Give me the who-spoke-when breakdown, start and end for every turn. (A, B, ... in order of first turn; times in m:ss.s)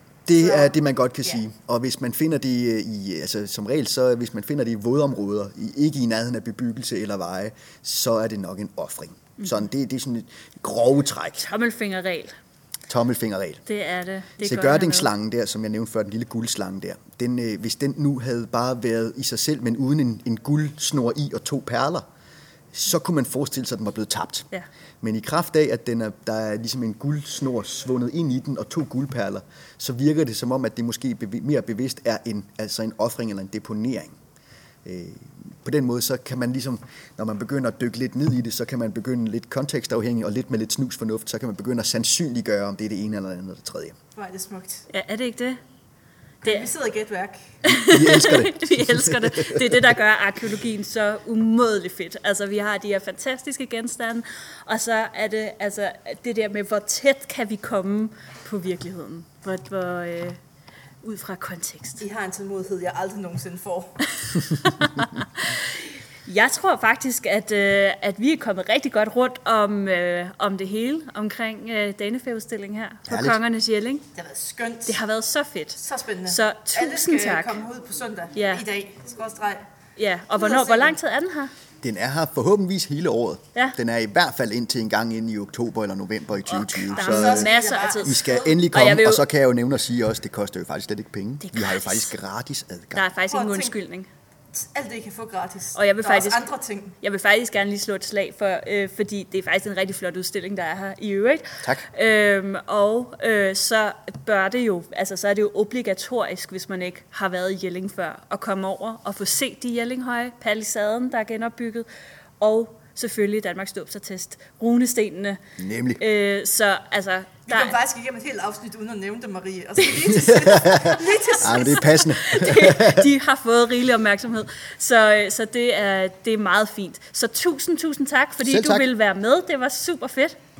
0:00.3-0:11.4 A
0:00.3-0:00.7 B
0:11.4-0:12.3 C
0:12.9-0:13.6 A
0:13.6-0:15.1 C
0:14.4-0:22.0 A
0:22.7-0:24.5 A
0:25.0-0:34.1 A
0:34.8-0:44.0 A
0:44.2-0:44.9 B
0:44.9-0:45.6 C
0:46.4-0:47.5 B
0:47.6-1:00.4 C
0:47.6-0:49.9 A
1:01.0-1:02.0 C
1:02.0-1:04.0 B
1:04.5-1:05.3 C
1:06.2-1:14.0 C
1:13.0-1:13.4 A
1:14.2-1:15.0 B
1:14.9-1:17.6 C
1:15.8-1:19.6 B
1:18.3-1:18.6 C
1:20.0-1:21.5 C
1:20.4-1:21.0 B
1:21.8-1:33.0 A
1:26.5-1:29.3 C
1:26.9-1:28.5 B
1:31.4-1:32.1 C
1:32.9-1:34.1 C
1:33.3-1:33.7 B
1:34.5-1:37.0 B
1:35.7-1:36.4 C
1:37.0-1:51.9 C
1:52.4-1:55.4 C
1:55.6-1:56.0 A
1:56.0-1:57.8 C
1:57.5-2:01.8 B
2:00.1-2:03.1 A
2:01.4-2:10.4 C
2:08.4-2:08.9 A